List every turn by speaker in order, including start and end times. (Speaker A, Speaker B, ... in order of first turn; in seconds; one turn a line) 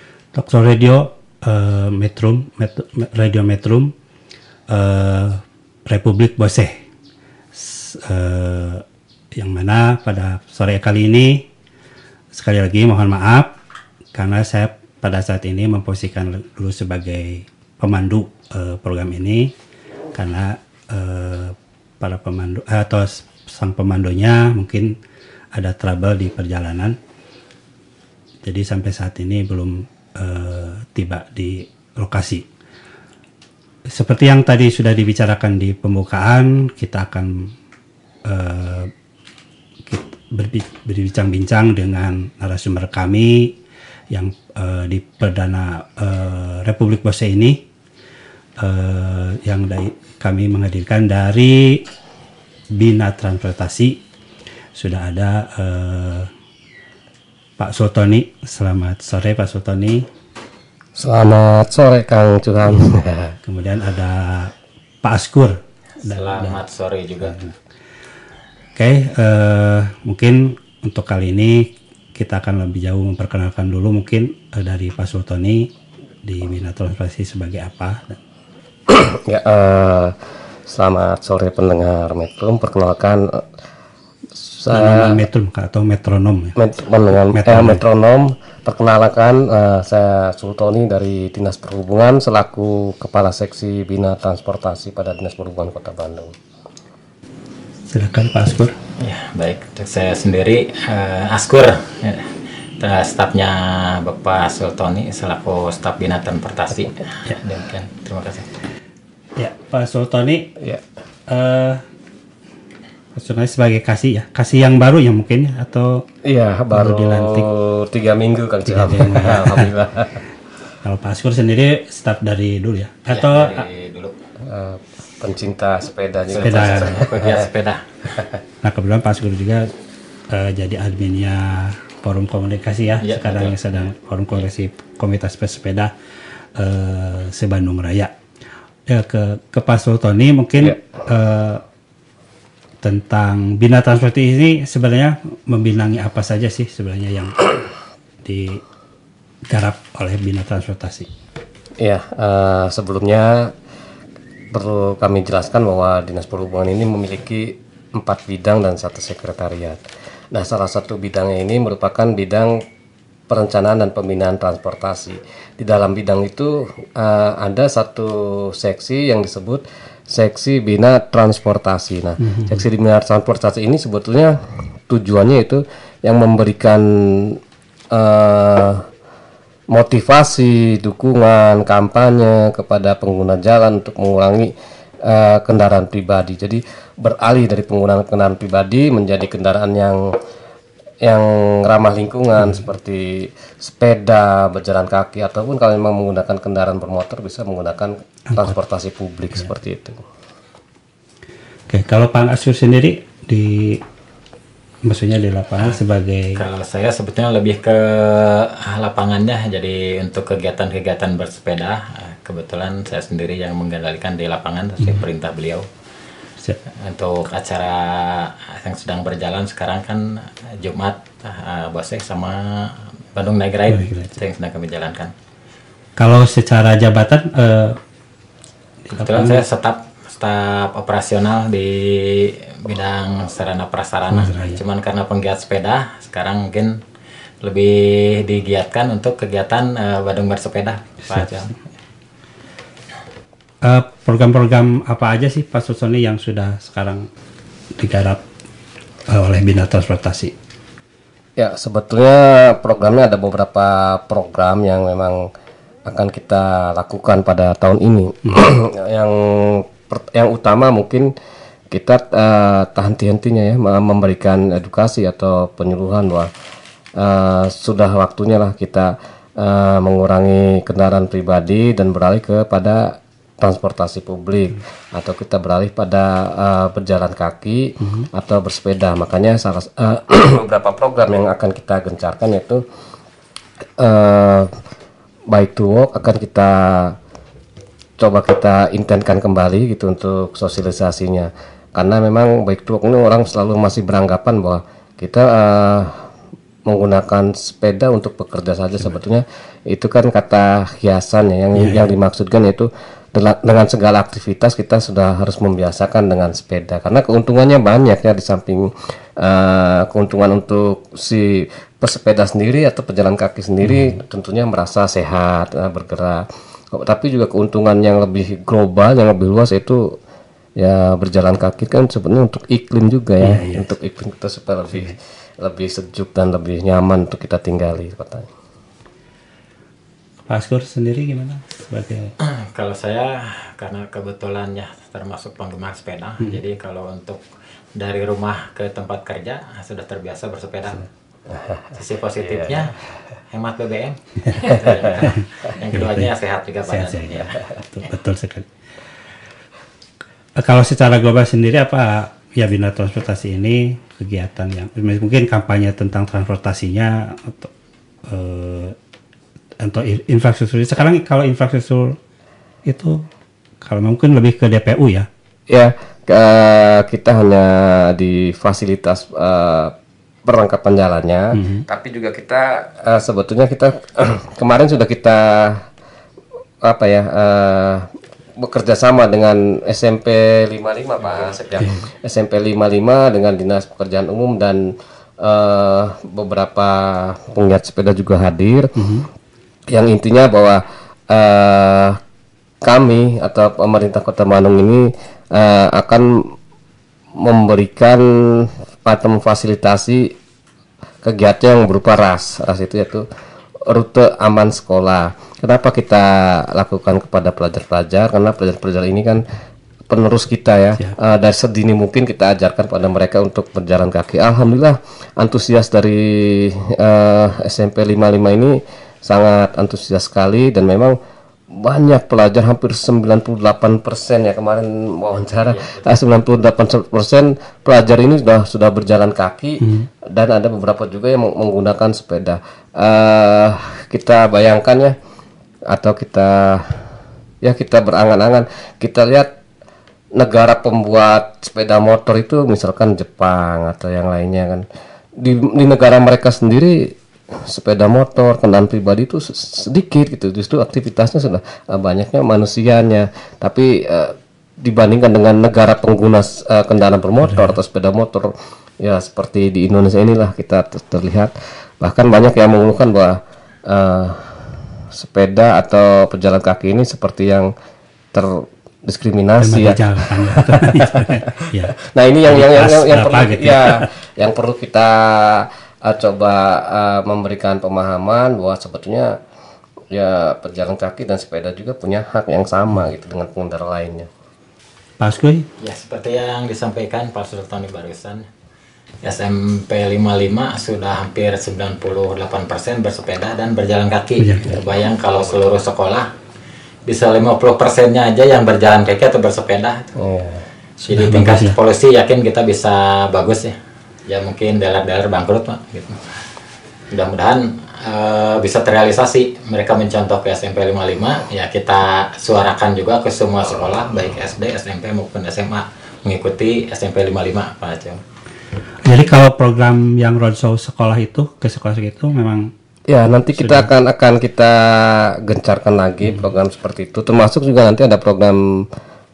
Speaker A: 0.3-3.9
Speaker A: 4.7-6.8
Speaker A: 7.5-8.8
Speaker A: 9.3-11.4
Speaker A: 12.3-13.5
Speaker A: 14.1-19.5
Speaker A: 20.1-24.9
Speaker A: 25.5-26.9
Speaker A: 28.4-32.4
Speaker A: 33.9-37.5
Speaker A: 38.3-38.9
Speaker A: 39.9-43.5
Speaker A: 44.1-47.6
Speaker A: 48.6-51.8
Speaker A: 52.7-54.0
Speaker A: 54.8-56.3
Speaker A: 57.6-60.0
Speaker B: 61.0-63.3
Speaker A: 63.5-66.6
Speaker C: 66.1-67.4
Speaker A: 68.8-75.7
Speaker A: 76.2-78.2
Speaker B: 78.9-80.2
Speaker B: 80.7-83.5
Speaker B: 84.4-85.2
Speaker A: 84.7-86.5
Speaker B: 86.5-96.3
Speaker A: 87.3-87.8
Speaker A: 97.9-98.7
Speaker C: 99.0-108.5
Speaker A: 109.4-110.5
Speaker B: 110.6-110.8
Speaker A: 111.3-111.8
Speaker A: 113.1-116.0
Speaker B: 116.2-120.2
Speaker A: 116.7-117.5
Speaker A: 118.7-119.7
Speaker A: 120.8-123.6
Speaker C: 123.1-124.1
Speaker B: 124.4-127.5
Speaker C: 126.3-127.8
Speaker A: 126.4-127.0
Speaker A: 128.6-129.7
Speaker A: 130.3-135.9
Speaker C: 133.0-133.6
Speaker A: 136.6-138.1
Speaker A: 138.9-141.6
Speaker A: 142.8-147.5
Speaker A: 148.2-148.6
Speaker A: 149.5-151.1
Speaker B: 151.8-153.5
Speaker B: 154.5-162.6
Speaker B: 163.3-177.4
Speaker A: 172.2-172.6
Speaker B: 177.9-178.8
Speaker B: 179.7-184.5
Speaker B: 185.0-190.1
Speaker B: 191.0-200.0
Speaker A: 198.3-198.6
Speaker A: 201.7-203.8
Speaker A: 204.8-206.4
Speaker C: 206.3-215.7
Speaker C: 216.8-225.1
Speaker A: 223.7-224.1
Speaker A: 226.0-227.8
Speaker A: 228.9-229.4
Speaker C: 228.9-236.8
Speaker A: 234.1-234.6
Speaker C: 237.4-241.5
Speaker A: 241.1-241.4
Speaker A: 243.6-247.1
Speaker A: 247.8-248.2
Speaker A: 249.1-250.3
Speaker B: 251.4-255.2
Speaker B: 255.8-261.1
Speaker B: 261.7-266.3
Speaker B: 267.0-282.6
Speaker A: 277.8-278.1
Speaker B: 283.8-284.5
Speaker B: 285.3-287.0
Speaker B: 288.0-296.1
Speaker B: 296.7-320.0
Speaker A: 301.6-301.9
Speaker A: 313.6-313.9
Speaker B: 320.6-328.3
Speaker A: 323.2-323.7
Speaker A: 330.2-332.1
Speaker C: 332.2-337.2
Speaker C: 337.7-340.9
Speaker B: 341.3-341.7
Speaker C: 341.7-342.7
Speaker B: 342.2-342.6
Speaker C: 343.3-347.4
Speaker A: 345.7-346.1
Speaker A: 346.7-348.5
Speaker A: 350.4-357.5
Speaker A: 358.1-358.8
Speaker A: 359.6-362.0
Speaker A: 362.6-363.0
Speaker A: 363.6-365.1
Speaker B: 365.5-375.6
Speaker A: 371.3-371.6
Speaker B: 376.6-384.6
Speaker B: 385.2-388.7
Speaker A: 388.8-389.1
Speaker B: 389.7-392.0
Speaker B: 392.6-396.3
Speaker B: 397.2-400.1
Speaker B: 401.0-403.0
Speaker B: 403.6-409.2
Speaker B: 409.9-420.9
Speaker B: 421.5-434.9
Speaker C: 425.5-425.8
Speaker A: 429.6-429.9
Speaker B: 435.7-436.9
Speaker B: 437.4-439.4
Speaker B: 440.1-444.6
Speaker B: 445.2-467.5
Speaker A: 457.2-457.6
Speaker B: 468.1-479.2
Speaker A: 469.4-471.7
Speaker A: 472.3-473.9
Speaker B: 479.9-484.1
Speaker A: 485.0-485.4
Speaker C: 485.6-488.2
Speaker C: 489.0-496.1
Speaker A: 494.2-494.6
Speaker C: 496.9-499.9
Speaker B: 499.9-500.4
Speaker A: 500.8-501.6
Speaker C: 500.9-503.5
Speaker C: 504.1-506.0
Speaker C: 506.9-518.0
Speaker A: 518.8-522.5
Speaker B: 522.9-528.6
Speaker A: 523.4-523.7